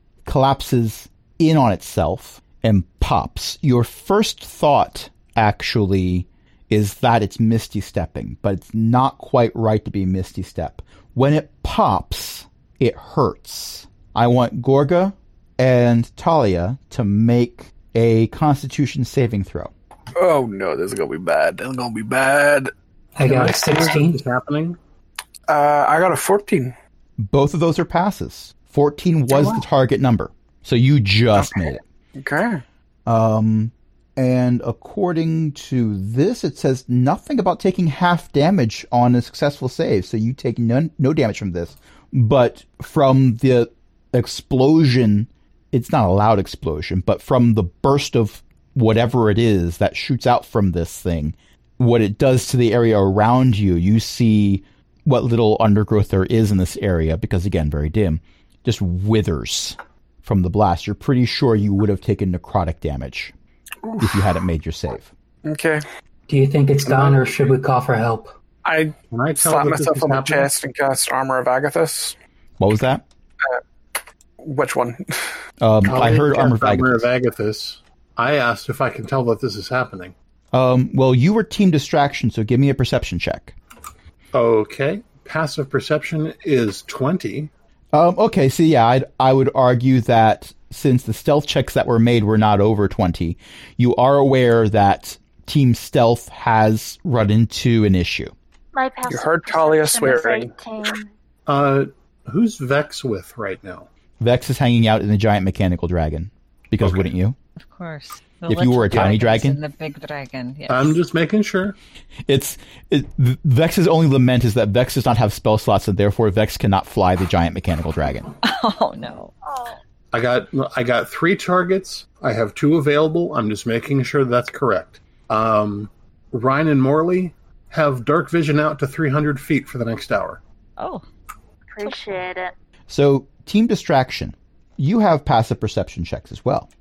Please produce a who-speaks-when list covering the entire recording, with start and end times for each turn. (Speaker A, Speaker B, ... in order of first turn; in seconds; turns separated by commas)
Speaker A: 0.2-19.7, Speaker B: 20.1-22.7, Speaker C: 23.2-24.2, Speaker D: 23.2-24.8, Speaker B: 25.5-26.8, Speaker A: 27.2-31.8, Speaker B: 31.4-32.6, Speaker A: 33.1-63.3, Speaker B: 63.8-64.3, Speaker A: 64.0-65.1, Speaker B: 65.5-65.8, Speaker C: 66.3-68.3, Speaker D: 66.9-67.3, Speaker B: 68.7-72.2, Speaker D: 69.1-70.5, Speaker A: 72.6-73.0, Speaker B: 74.4-75.4, Speaker A: 75.6-77.1, Speaker D: 75.8-80.1, Speaker A: 80.5-83.5, Speaker D: 84.3-87.5, Speaker A: 87.9-98.3, Speaker E: 98.7-101.1, Speaker B: 99.1-100.6, Speaker D: 101.5-103.9, Speaker A: 104.2-107.4, Speaker D: 106.8-107.1, Speaker F: 107.6-111.0, Speaker A: 108.5-109.6, Speaker D: 110.7-111.8, Speaker A: 112.3-118.3, Speaker F: 118.4-119.3, Speaker E: 119.4-119.8, Speaker D: 120.1-130.4, Speaker F: 130.8-131.1, Speaker E: 131.7-132.5, Speaker F: 131.8-132.2, Speaker A: 132.9-136.7